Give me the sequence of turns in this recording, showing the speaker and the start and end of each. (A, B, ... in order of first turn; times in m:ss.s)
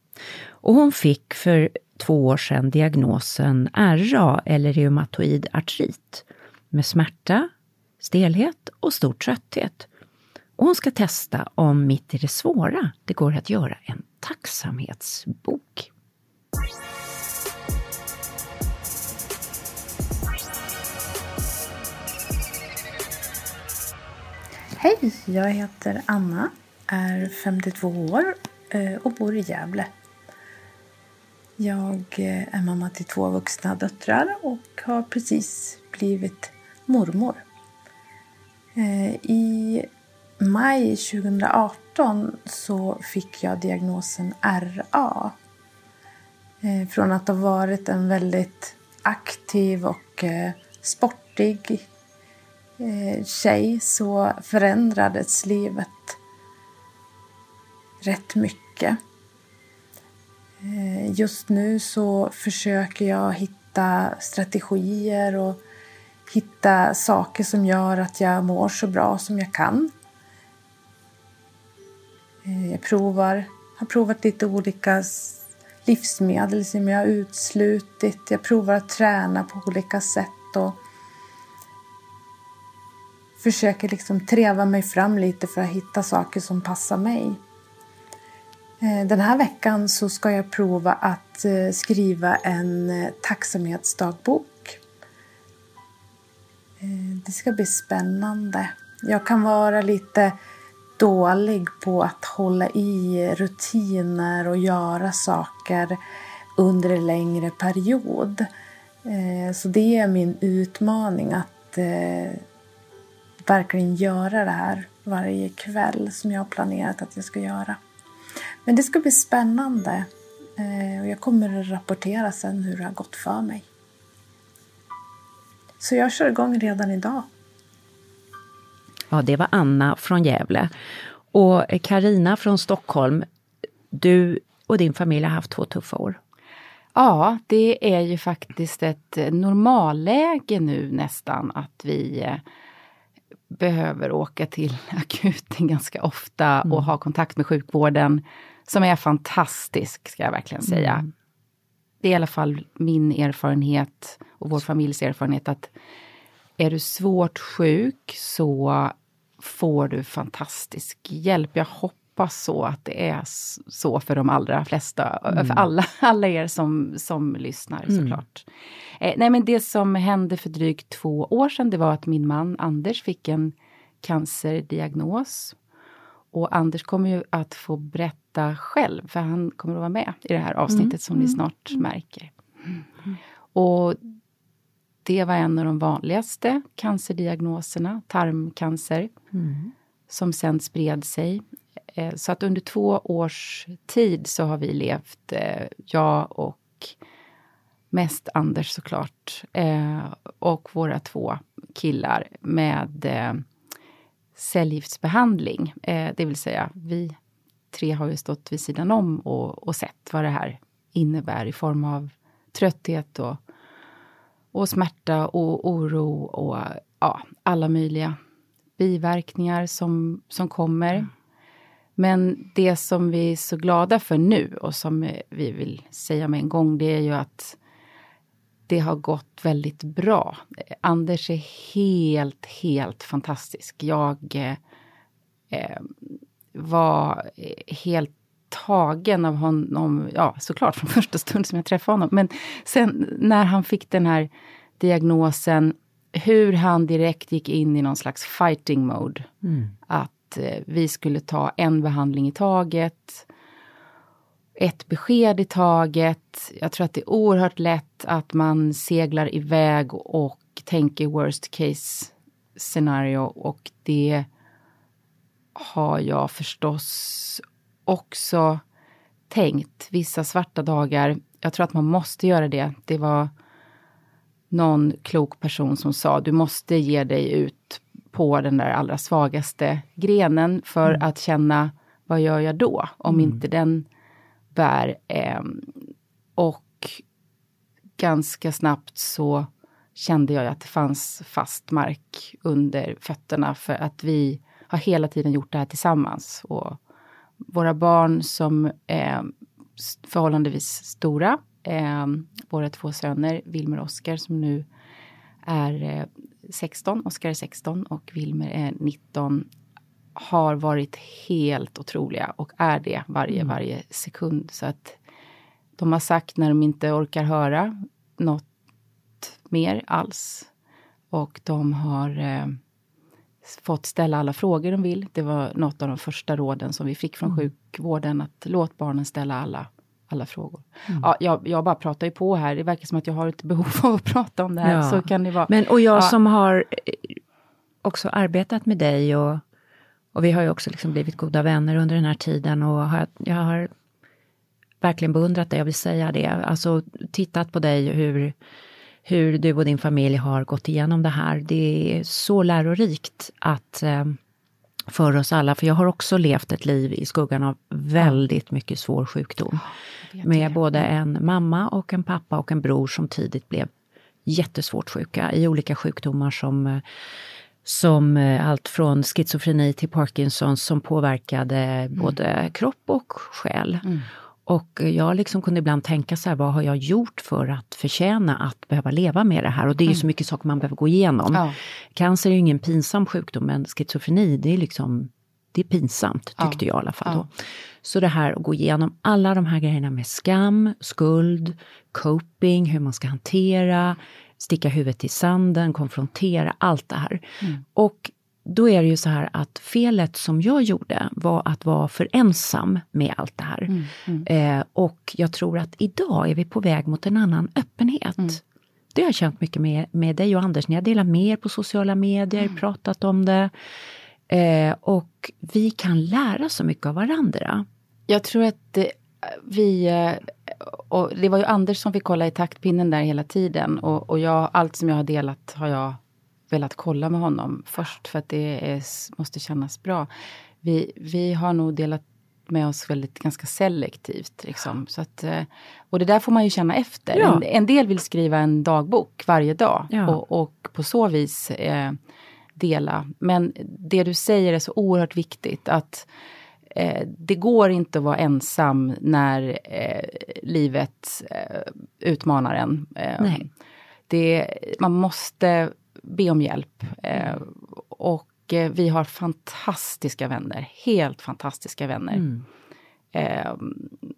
0:00.6-0:09.9 A
0:10.6-0:15.9 A
0:24.8-0:29.9 B
0:31.6-0:37.4 B
0:38.7-0:39.9 B
0:40.4-0:45.3 B
0:46.6-0:51.8 B
0:52.8-0:56.2 B
0:58.0-0:59.0 B
1:00.6-1:05.6 B
1:06.3-1:09.9 B
1:12.4-1:20.8 B
1:23.4-1:27.4 B
1:28.8-1:34.8 B
1:36.8-1:40.4 B
1:41.0-1:46.0 B
1:46.6-1:48.5 B
1:49.0-1:52.4 B
1:53.5-1:57.8 B
1:58.6-2:03.6 B
2:05.8-2:07.3 B
2:09.1-2:10.7 A
2:11.3-2:13.2 A
2:13.9-2:16.2 A
2:16.9-2:22.4 C
2:23.5-2:31.0 C
2:30.7-2:31.0 A
2:32.0-2:35.7 C
2:36.6-2:48.5 C
2:45.3-2:45.6 A
2:47.9-2:48.2 A
2:49.0-2:55.5 C
2:56.3-3:02.3 C
3:00.7-3:01.4 A
3:03.5-3:04.0 C
3:05.0-3:09.1 C
3:09.3-3:09.7 A
3:10.1-3:11.4 C
3:11.9-3:16.9 C
3:17.9-3:23.4 C
3:24.4-3:27.1 C
3:27.7-3:33.4 C
3:34.5-3:38.2 C
3:38.8-3:41.1 C
3:42.0-3:47.6 C
3:48.7-3:54.6 C
3:55.5-3:55.9 C
3:56.5-4:04.3 C
4:04.8-4:09.3 C
4:09.4-4:09.7 A
4:09.9-4:13.2 C
4:14.6-4:24.3 C
4:25.5-4:28.6 C
4:29.3-4:33.3 C
4:34.5-4:43.8 C
4:43.1-4:43.4 A
4:44.5-4:45.7 C
4:46.4-4:47.0 C
4:48.0-4:56.8 C
4:57.4-5:04.6 C
5:05.4-5:09.5 C
5:10.2-5:15.0 C
5:15.8-5:18.4 C
5:19.2-5:20.5 C
5:21.1-5:22.6 C
5:23.4-5:36.1 C
5:34.6-5:37.2 A
5:37.8-5:39.4 A
5:40.1-5:43.7 A
5:44.8-5:48.4 A
5:49.0-5:54.2 A
5:54.9-5:59.7 A
6:00.1-6:00.9 C
6:00.2-6:03.7 A
6:04.2-6:06.8 A
6:07.6-6:13.8 A
6:14.4-6:37.2 A
6:26.4-6:27.2 C
6:37.7-6:48.4 A
6:43.7-6:44.2 C
6:48.9-6:53.5 A
6:54.3-6:57.6 A
6:58.1-7:06.0 C
7:06.5-7:10.1 C
7:10.6-7:22.0 C
7:17.1-7:17.4 A
7:19.9-7:20.2 A
7:22.6-7:26.1 C
7:26.7-7:33.5 C
7:33.2-7:33.5 A
7:34.1-7:42.2 C
7:42.1-7:42.4 A
7:43.1-7:44.0 C